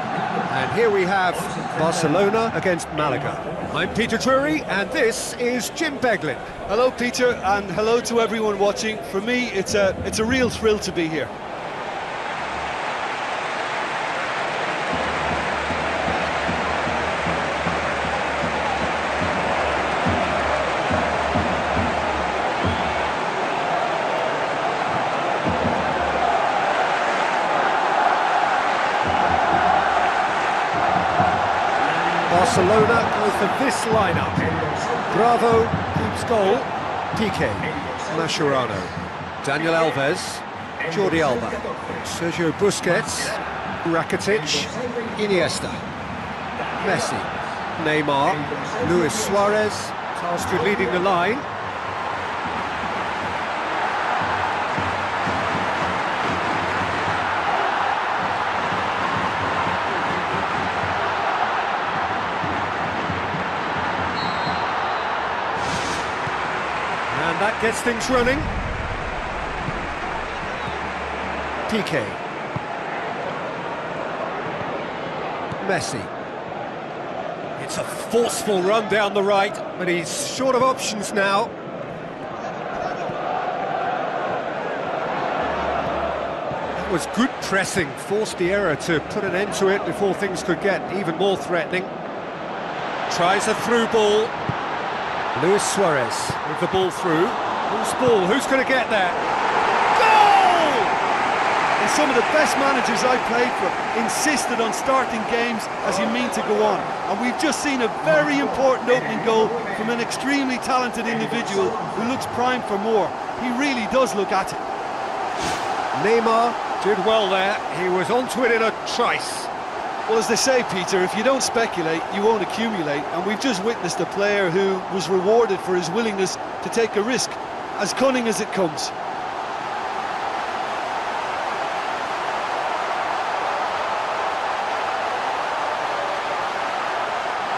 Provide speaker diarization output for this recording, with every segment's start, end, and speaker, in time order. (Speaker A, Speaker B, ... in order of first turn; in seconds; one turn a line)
Speaker A: 0.5-6.5
Speaker B: 6.7-11.3
Speaker A: 32.2-34.5
Speaker A: 35.1-45.8
Speaker A: 46.8-51.5
Speaker A: 67.1-68.5
Speaker A: 71.7-72.2
Speaker A: 75.6-76.1
Speaker A: 77.6-81.5
Speaker A: 86.7-91.9
Speaker A: 93.1-94.3
Speaker A: 95.3-99.2
Speaker A: 99.9-101.0
Speaker B: 101.8-114.6
Speaker A: 115.9-119.5
Speaker B: 120.1-128.9